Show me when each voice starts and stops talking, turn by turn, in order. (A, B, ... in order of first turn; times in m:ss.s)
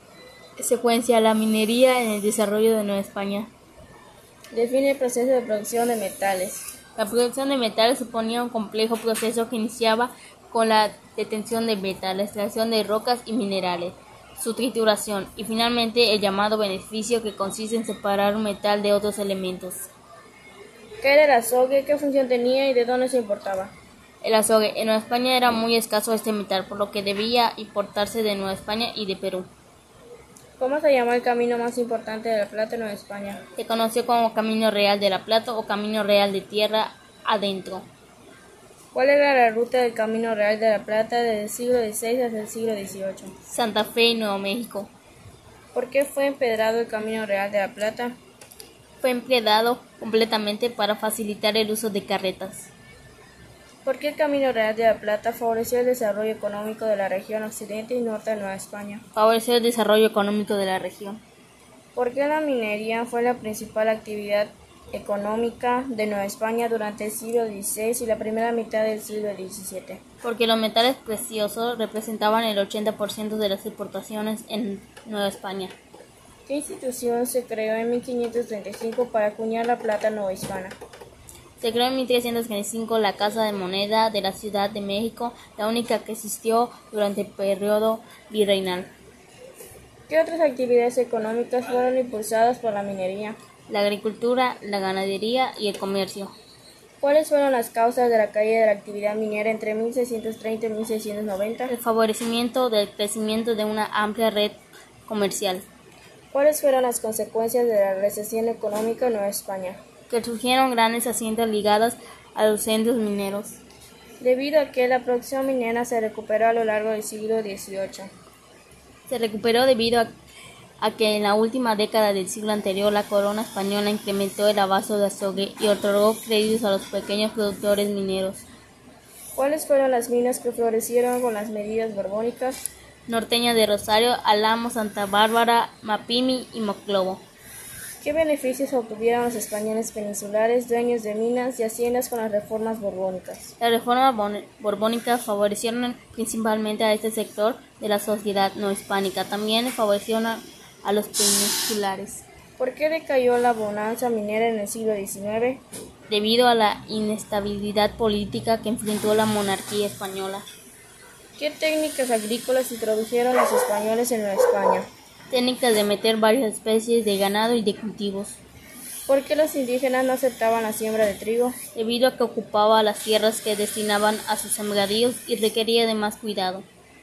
0:00.6-0:03.5 A
0:04.5-0:06.6 B
0:07.0-0:19.9 A
0:21.0-0:23.7 B
0:24.2-0:29.5 A
0:30.6-0:33.4 B
0:33.6-0:37.8 A
0:38.9-0:43.3 B
0:43.4-0:44.9 A
0:45.7-0:48.2 B
0:49.0-0:52.7 A
0:53.8-0:59.0 B
0:59.1-1:01.2 A
1:01.9-1:10.0 B
1:10.2-1:15.8 A
1:16.5-1:20.8 B
1:21.6-1:28.9 A
1:30.1-1:33.4 B
1:33.7-1:36.3 A
1:37.0-1:41.7 B
1:41.7-1:45.6 A
1:46.3-1:49.8 B
1:50.1-1:53.6 A
1:54.2-1:58.1 B
1:59.1-2:00.1 A
2:00.8-2:08.4 A
2:09.4-2:12.7 B
2:13.1-2:17.2 A
2:18.0-2:23.5 B
2:23.6-2:32.2 A
2:32.6-2:35.6 B
2:36.1-2:40.4 A
2:41.4-2:44.9 B
2:45.3-2:48.4 A
2:49.1-2:51.6 B
2:51.8-2:56.7 A